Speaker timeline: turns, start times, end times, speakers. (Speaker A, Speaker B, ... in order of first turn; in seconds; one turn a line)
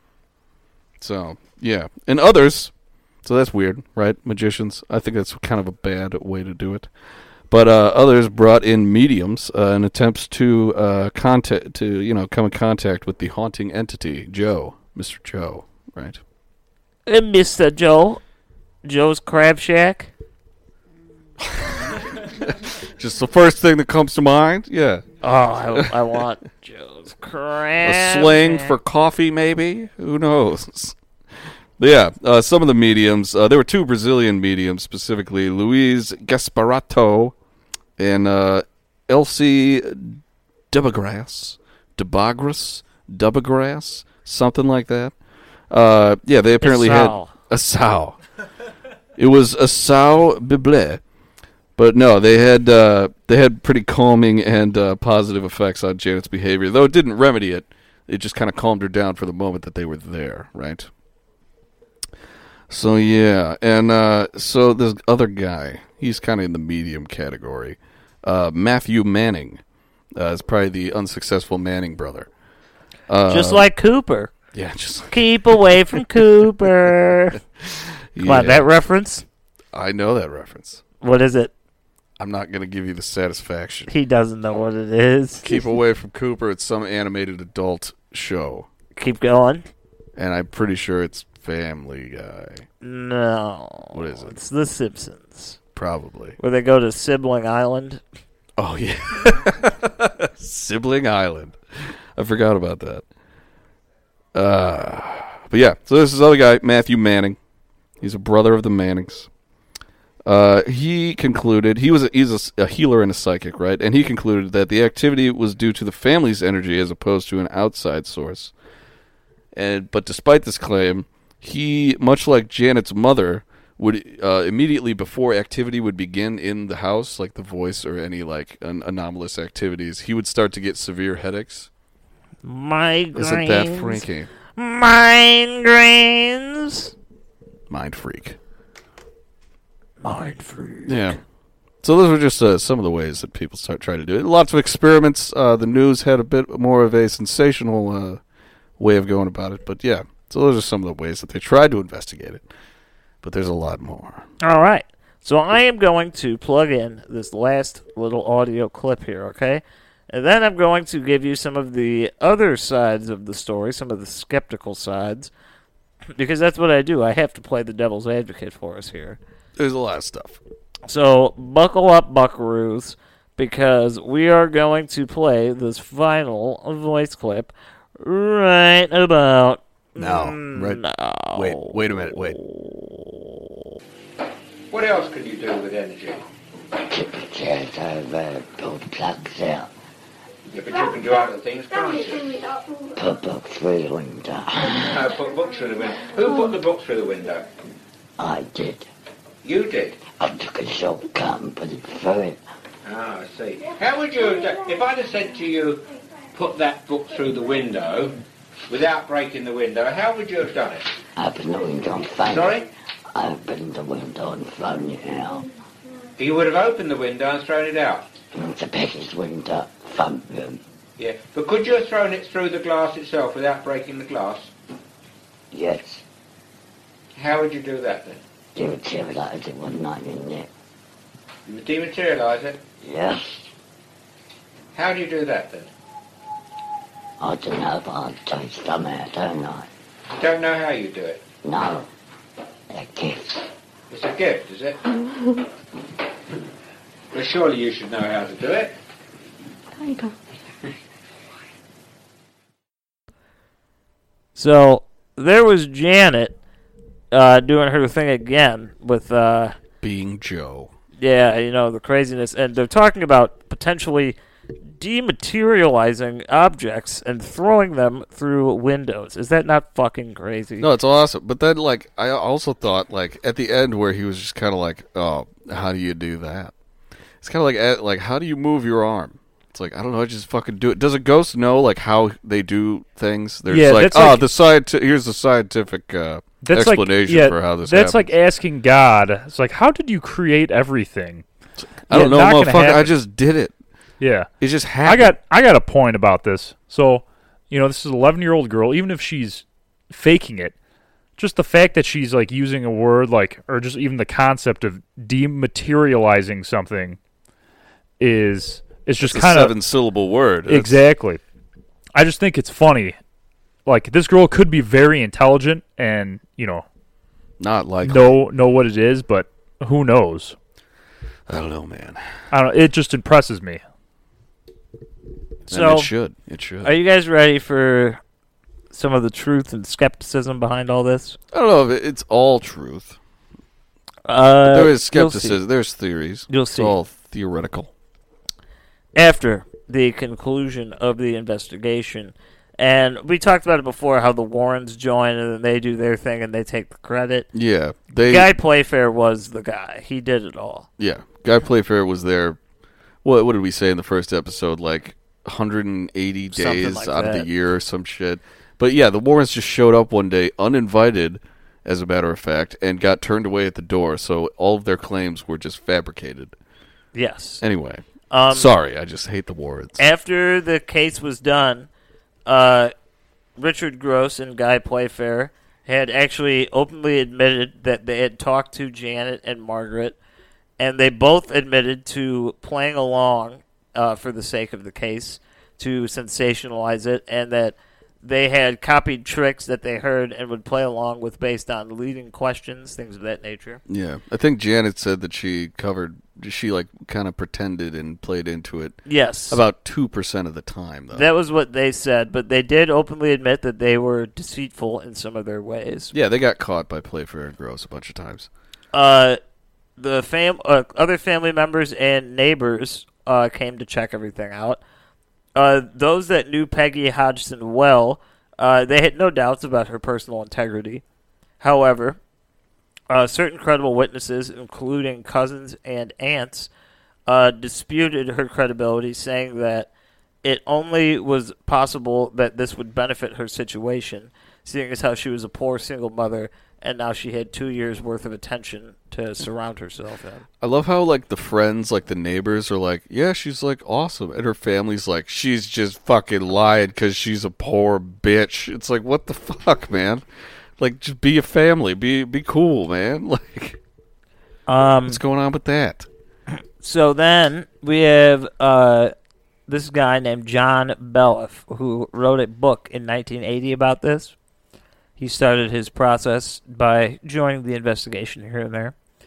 Speaker A: 1.0-2.7
Speaker A: 3.2-6.9
Speaker A: 7.5-16.2
Speaker B: 17.1-18.2
Speaker B: 18.9-20.1
Speaker A: 21.4-25.1
Speaker B: 25.2-28.8
Speaker A: 27.8-31.0
Speaker A: 31.8-37.3
Speaker A: 38.0-40.2
Speaker A: 40.7-45.1
Speaker A: 45.7-48.2
Speaker B: 46.6-47.3
Speaker A: 49.2-51.0
Speaker A: 51.8-60.9
Speaker A: 62.7-69.6
Speaker A: 70.2-72.3
Speaker A: 73.1-73.7
Speaker B: 73.3-74.3
Speaker A: 74.5-76.0
Speaker B: 75.1-77.4
Speaker A: 77.6-78.7
Speaker B: 78.2-79.2
Speaker A: 79.7-80.8
Speaker B: 81.0-81.5
Speaker A: 82.2-83.9
Speaker B: 83.9-85.6
Speaker A: 85.4-88.7
Speaker B: 89.0-89.7
Speaker A: 90.2-92.7
Speaker B: 92.8-95.6
Speaker A: 93.9-94.4
Speaker A: 95.8-96.4
Speaker B: 96.4-98.0
Speaker A: 98.6-103.0
Speaker A: 104.3-107.4
Speaker A: 108.0-109.3
Speaker A: 110.3-118.5
Speaker A: 119.5-131.7
Speaker B: 132.4-134.0
Speaker A: 133.2-134.3
Speaker B: 134.6-136.9
Speaker A: 137.7-138.4
Speaker B: 140.0-141.2
Speaker A: 140.9-141.2
Speaker A: 141.8-148.2
Speaker A: 148.8-152.4
Speaker A: 153.2-154.3
Speaker B: 154.4-165.3
Speaker B: 166.2-169.2
Speaker A: 169.6-170.4
Speaker B: 170.9-183.4
Speaker A: 180.0-180.8
Speaker A: 181.3-182.4
Speaker C: 184.7-186.3
Speaker D: 186.9-189.7
Speaker C: 190.5-192.4
Speaker D: 193.0-195.0
Speaker C: 194.9-197.5
Speaker D: 198.2-198.9
Speaker C: 199.4-200.0
Speaker D: 200.1-202.4
Speaker C: 202.8-210.9
Speaker D: 211.2-212.5
Speaker C: 212.2-212.7
Speaker D: 213.1-215.5
Speaker C: 216.2-218.1
Speaker D: 218.3-220.6
Speaker C: 221.0-224.5
Speaker D: 225.5-226.0
Speaker C: 227.2-228.2
Speaker D: 228.6-230.5
Speaker C: 231.5-232.6
Speaker D: 232.8-233.5
Speaker C: 234.7-235.7
Speaker D: 237.2-239.7
Speaker C: 240.1-241.2
Speaker D: 241.4-241.9
Speaker D: 242.7-243.5
Speaker C: 243.9-244.8
Speaker C: 247.1-248.8
Speaker B: 254.3-256.4
Speaker B: 257.1-259.6
Speaker A: 259.8-260.7
Speaker B: 261.0-264.2
Speaker B: 264.8-270.7
Speaker A: 270.6-276.5
Speaker A: 277.2-288.1
Speaker E: 283.5-284.3
Speaker E: 286.4-291.2
Speaker A: 291.9-293.5
Speaker E: 291.9-292.9
Speaker E: 294.0-294.3
Speaker A: 294.4-295.1
Speaker E: 294.8-300.6
Speaker E: 301.2-307.0
Speaker E: 308.0-309.6
Speaker A: 309.0-310.8
Speaker E: 310.5-311.2
Speaker E: 311.9-313.0
Speaker E: 313.7-316.6
Speaker A: 317.4-318.1
Speaker E: 317.8-320.4
Speaker A: 321.3-322.1
Speaker E: 322.3-323.6
Speaker A: 325.5-326.7
Speaker B: 325.5-325.9
Speaker B: 326.6-328.0
Speaker B: 328.7-331.2
Speaker A: 331.3-333.0
Speaker B: 334.1-335.4
Speaker A: 334.5-337.7
Speaker B: 336.3-336.8
Speaker B: 338.9-347.3
Speaker A: 347.3-348.3
Speaker B: 348.1-350.7
Speaker A: 350.8-352.4
Speaker A: 353.0-366.3
Speaker B: 356.3-357.3
Speaker B: 366.9-367.4
Speaker A: 367.4-369.8
Speaker B: 368.1-368.5
Speaker B: 369.8-371.7
Speaker B: 372.3-372.7
Speaker B: 373.4-380.0
Speaker B: 380.6-393.6
Speaker A: 393.7-398.8
Speaker B: 398.9-399.4
Speaker A: 399.3-401.1
Speaker B: 400.9-405.9
Speaker A: 405.9-408.3
Speaker B: 408.7-409.2
Speaker B: 409.8-414.6
Speaker B: 415.4-420.8
Speaker B: 421.4-422.0
Speaker B: 422.9-426.5
Speaker B: 427.1-429.7
Speaker B: 430.2-440.2
Speaker A: 440.4-450.0
Speaker A: 450.6-453.6
Speaker B: 454.5-455.0
Speaker A: 454.9-455.9
Speaker B: 456.6-458.9
Speaker B: 459.5-464.1
Speaker B: 465.0-468.8